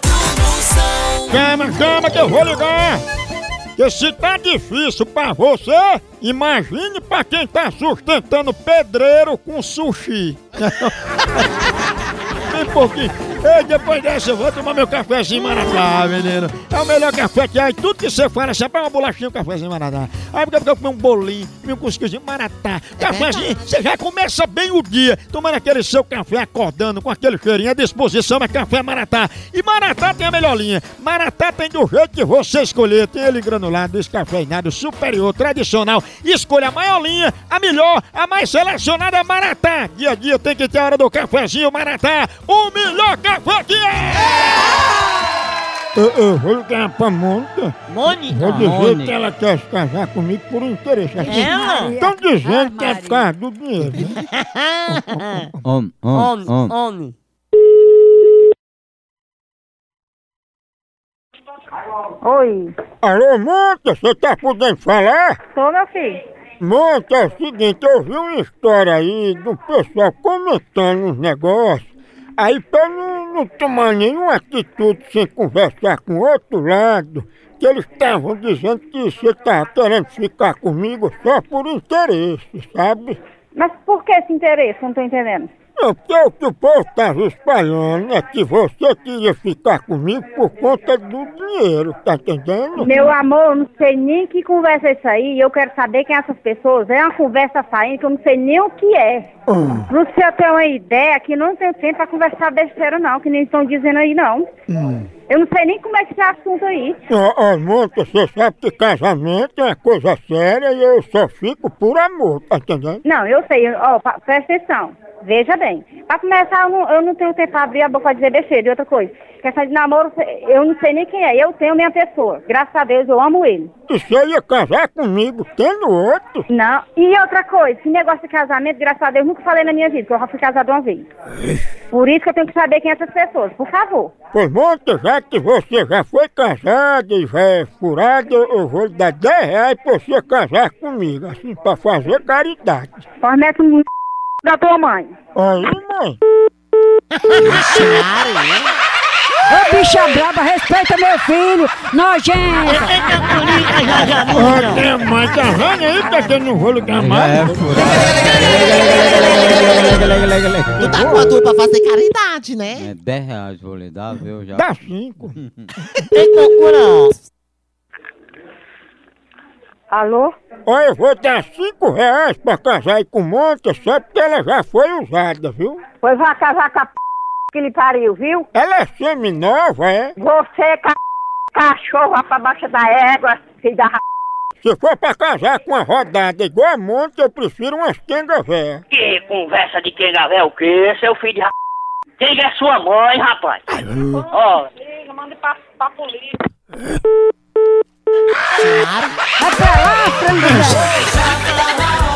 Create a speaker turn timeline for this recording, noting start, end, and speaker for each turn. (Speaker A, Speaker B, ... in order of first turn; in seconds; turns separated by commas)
Speaker A: 1.3-3.0, Speaker A: 3.8-11.5, Speaker A: 12.5-44.6, Speaker B: 23.1-23.5, Speaker A: 45.9-47.8, Speaker B: 47.9-48.5, Speaker A: 48.3-54.2, Speaker C: 48.5-49.1, Speaker B: 51.2-52.0, Speaker D: 51.4-53.2, Speaker B: 54.1-55.5, Speaker A: 54.9-55.5, Speaker C: 55.6-56.7, Speaker B: 56.1-57.1, Speaker E: 62.2-62.7, Speaker A: 63.0-65.4, Speaker E: 65.5-66.2, Speaker A: 66.6-71.9, Speaker A: 72.4-83.2, Speaker E: 83.5-85.5, Speaker A: 85.8-92.9, Speaker E: 92.8-99.3, Speaker A: 99.5-99.9, Speaker E: 99.9-104.5, Speaker A: 104.7-105.0, Speaker E: 105.3-107.0, Speaker A: 107.1-113.0, Speaker E: 113.0-123.7, Speaker A: 123.9-126.5, Speaker E: 126.5-131.1, Speaker E: 131.9-134.1, Speaker A: 134.3-143.0, Speaker E: 143.2-143.9, Speaker E: 144.4-145.1, Speaker A: 145.3-146.2, Speaker B: 147.2-148.7, Speaker D: 149.5-153.0, Speaker B: 152.6-154.8, Speaker A: 154.3-157.7, Speaker C: 156.9-161.2, Speaker B: 160.8-162.9, Speaker C: 162.7-165.7, Speaker A: 164.5-165.4, Speaker B: 166.0-167.2, Speaker E: 169.9-170.3, Speaker A: 170.7-175.8, Speaker E: 176.0-176.9, Speaker E: 177.5-178.5, Speaker A: 178.5-180.2, Speaker E: 180.2-181.0, Speaker E: 181.5-184.0, Speaker A: 184.6-188.8, Speaker F: 188.9-191.5, Speaker F: 192.2-193.6, Speaker F: 194.3-194.6, Speaker E: 194.9-196.3, Speaker B: 198.6-199.2, Speaker D: 199.4-201.0